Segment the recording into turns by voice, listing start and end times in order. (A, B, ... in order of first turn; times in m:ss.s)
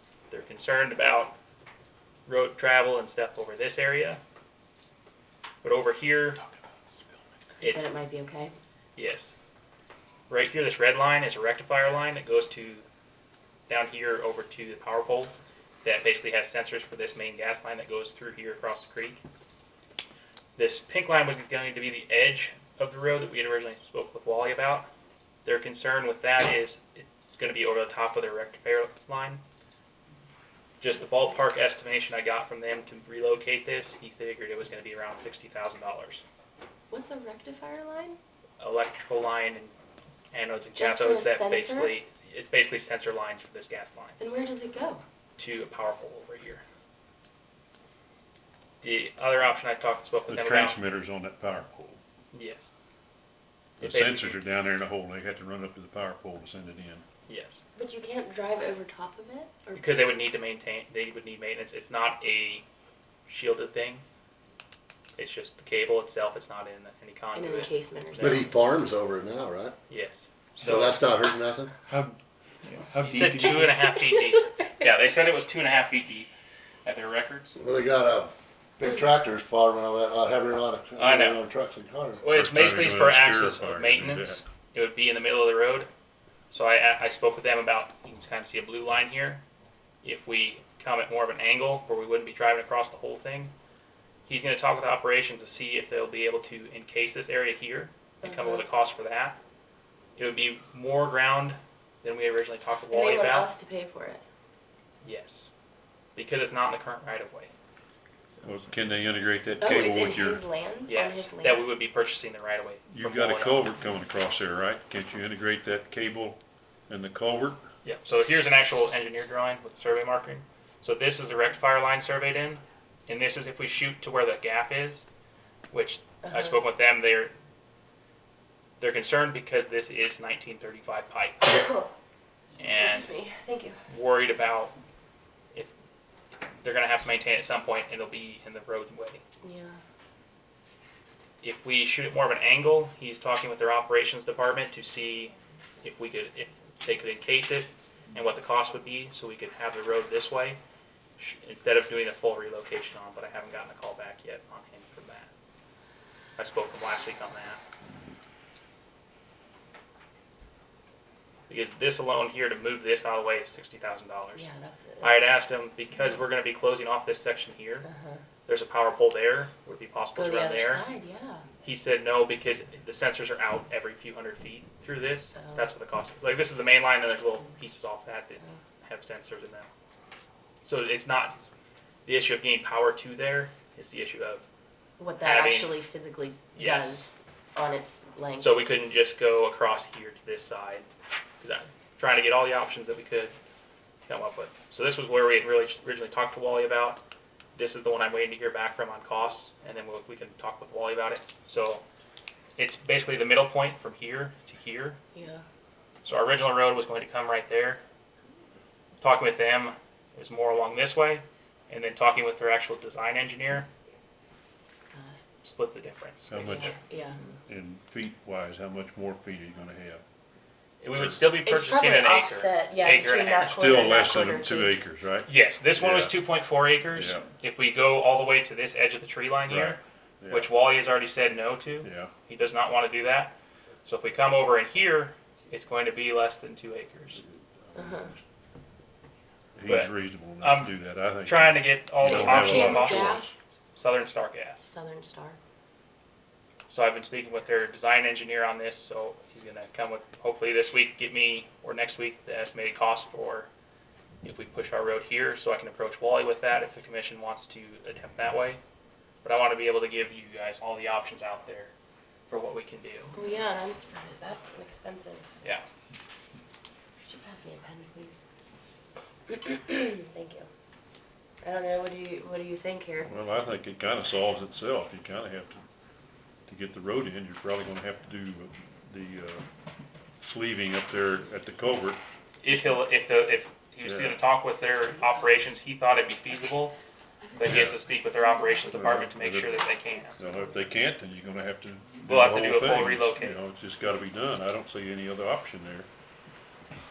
0:00.3-0:01.4 A
0:02.3-0:04.2 A
0:05.6-0:06.4 A
0:07.6-0:08.6 B
0:07.6-0:07.9 A
0:09.0-0:09.3 A
0:10.3-0:12.8 A
0:13.7-0:19.2 A
0:20.6-0:24.9 A
0:25.4-0:29.4 A
0:30.8-0:36.2 A
0:36.9-0:38.2 B
0:38.6-0:39.7 A
0:40.3-0:44.2 A
0:40.7-0:42.0 B
0:44.2-0:45.0 B
0:45.4-0:46.6 A
0:48.8-0:50.8 A
0:50.3-0:52.0 C
0:52.3-0:52.7 A
0:53.8-0:57.0 C
0:53.8-0:54.4 A
0:57.3-0:57.6 A
0:57.8-0:59.8 B
0:59.8-1:02.6 A
1:03.3-1:04.0 A
1:05.2-1:08.5 A
1:07.3-1:08.5 B
1:08.2-1:09.8 D
1:09.9-1:11.0 A
1:10.6-1:11.7 D
1:11.9-1:13.9 C
1:13.0-1:16.3 A
1:14.0-1:14.4 B
1:16.8-1:17.6 A
1:17.6-1:22.2 D
1:21.0-1:21.4 A
1:22.2-1:25.9 A
1:22.2-1:24.5 C
1:26.5-1:29.4 A
1:30.0-1:33.5 A
1:34.3-1:39.4 A
1:38.2-1:38.6 B
1:40.2-1:43.5 A
1:42.9-1:44.2 B
1:45.0-1:45.5 A
1:46.2-1:47.5 A
1:48.4-1:50.4 C
1:49.6-1:51.6 B
1:50.9-1:53.7 A
1:52.9-1:57.6 C
1:57.8-2:05.0 A
2:05.7-2:07.3 A
2:06.2-2:06.6 B
2:08.8-2:11.6 A
2:11.5-2:11.9 B
2:12.6-2:13.1 A
2:12.6-2:13.8 B
2:13.9-2:14.8 A
2:16.6-2:19.2 A
2:19.4-2:19.8 B
2:21.4-2:30.6 A
2:31.2-2:35.3 A
2:36.4-2:37.6 A
2:41.5-2:44.5 A
2:44.4-2:45.3 B
2:45.0-2:47.9 A
2:47.8-2:48.2 B
2:48.5-2:50.8 A
2:50.2-2:51.5 B
2:51.6-2:59.7 A
2:55.4-2:55.6 B
3:00.6-3:01.4 A
3:02.1-3:04.4 A
3:05.0-3:08.6 B
3:05.2-3:05.8 A
3:06.6-3:07.1 A
3:08.4-3:10.9 A
3:11.4-3:13.3 A
3:14.1-3:17.0 A
3:17.6-3:21.8 A
3:22.6-3:25.0 A
3:25.1-3:25.4 B
3:26.0-3:27.8 A
3:29.0-3:33.7 A
3:34.9-3:35.2 B
3:35.4-3:36.8 A
3:36.3-3:36.8 C
3:36.5-3:37.2 B
3:37.4-3:40.0 C
3:40.8-3:43.8 A
3:41.0-3:41.2 C
3:41.4-3:44.8 B
3:43.5-3:46.2 C
3:45.3-3:53.3 A
3:46.9-3:47.2 C
3:49.5-3:50.5 C
3:51.8-3:52.1 C
3:53.8-3:57.2 A
3:57.8-3:58.1 B
3:59.6-4:03.3 C
3:59.7-4:00.7 A
4:01.2-4:03.2 A
4:02.0-4:03.4 B
4:03.8-4:04.7 A
4:04.6-4:05.4 B
4:06.7-4:13.5 A
4:14.2-4:18.6 A
4:19.2-4:21.7 A
4:22.3-4:23.2 A
4:23.1-4:25.3 B
4:27.1-4:28.2 B
4:29.5-4:30.5 B
4:31.4-4:33.1 B
4:33.0-4:35.6 C
4:36.5-4:39.5 C
4:40.2-4:42.0 C
4:42.4-4:46.8 A
4:43.8-4:44.2 C
4:44.9-4:45.4 B
4:47.2-4:48.7 B
4:47.4-4:50.2 A
4:47.4-4:47.8 C
4:48.7-4:49.6 C
4:49.5-4:50.5 B
4:50.2-4:55.9 C
4:52.1-4:53.4 A